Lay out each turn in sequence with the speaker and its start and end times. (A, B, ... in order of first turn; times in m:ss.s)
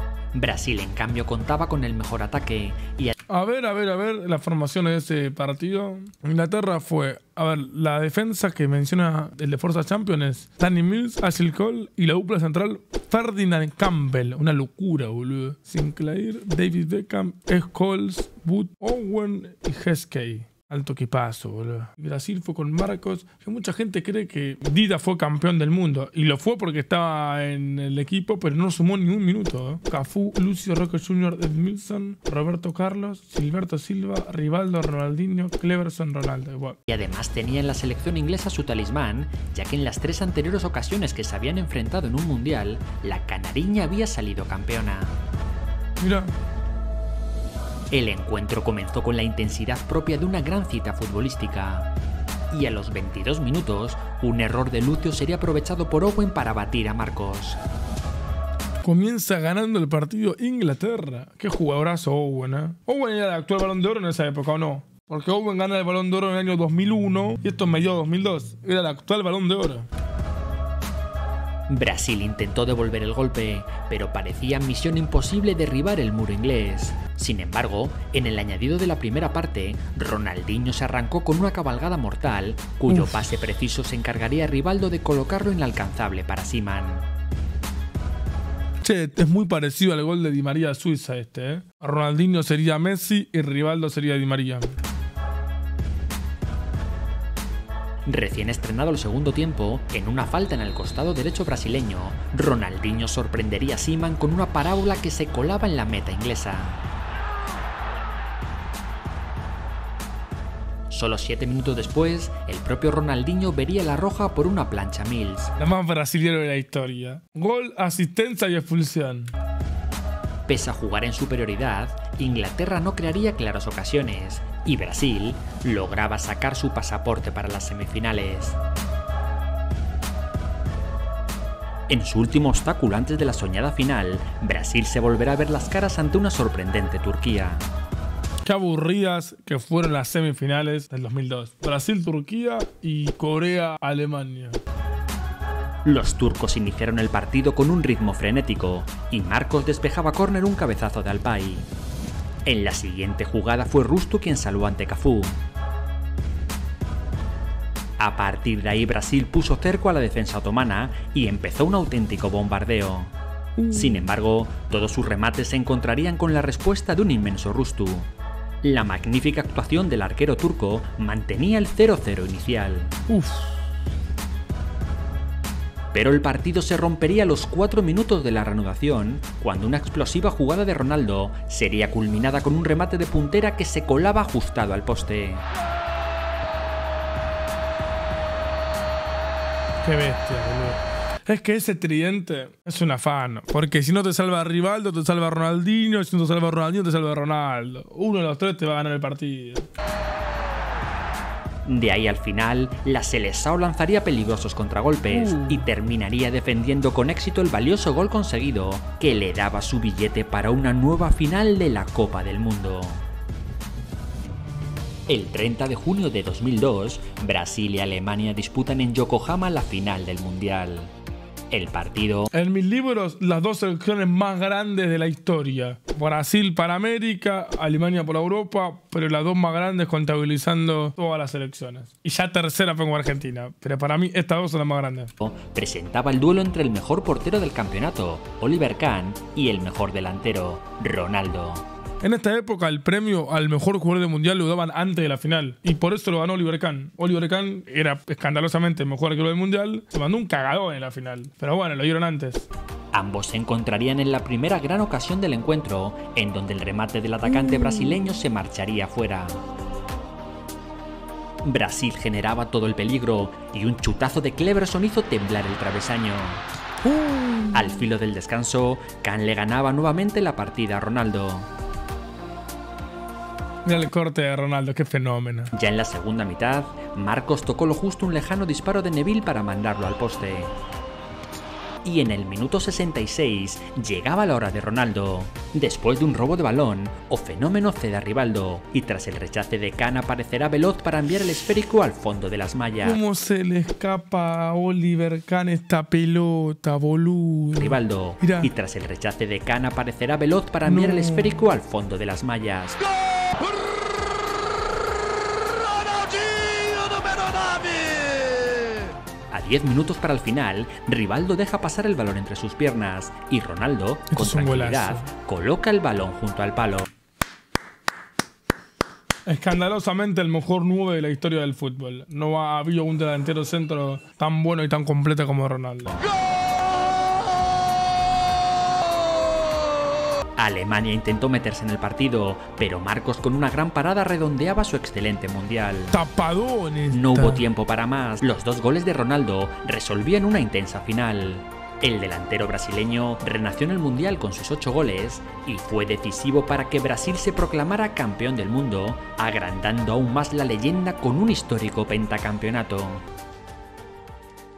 0:00.3-0:03.1 A
0:03.3-0:36.8 B
0:36.9-0:45.1 A
0:46.0-0:46.3 B
0:47.9-0:51.9 A
0:52.5-0:57.6 A
0:58.8-1:09.9 B
1:11.7-1:27.1 A
1:22.9-1:23.2 B
1:28.8-1:34.7 B
1:38.1-1:46.8 A
1:50.9-1:55.5 A
1:55.6-1:59.3 B
2:00.5-2:08.6 A
2:11.9-2:17.7 A
2:18.5-2:24.6 B
2:25.8-2:31.7 A
2:32.4-2:35.4 A
2:38.0-2:43.1 A
2:43.6-2:44.1 B
2:43.7-2:48.1 A
2:48.6-2:52.9 A
2:53.1-2:53.6 B
2:55.9-3:05.4 A
3:09.8-3:19.7 B
3:21.7-3:33.0 A
3:25.1-3:25.7 B
3:35.1-3:40.9 A
3:41.5-3:42.3 A
3:42.3-3:55.1 B
3:55.2-4:01.6 A
4:02.0-4:12.5 B
4:12.9-4:19.4 A
4:21.4-4:26.4 A
4:26.8-4:27.9 B
4:27.5-4:31.5 A
4:33.7-4:35.5 B
4:35.5-4:40.5 A
4:41.8-4:53.0 A
4:52.8-4:58.5 B
4:57.6-5:02.8 A
5:00.6-5:01.5 B
5:06.1-5:08.7 B
5:09.3-5:16.9 A
5:14.1-5:15.1 B
5:19.3-5:26.0 B
5:30.4-5:36.0 A
5:35.9-5:37.4 B
5:36.9-5:53.0 A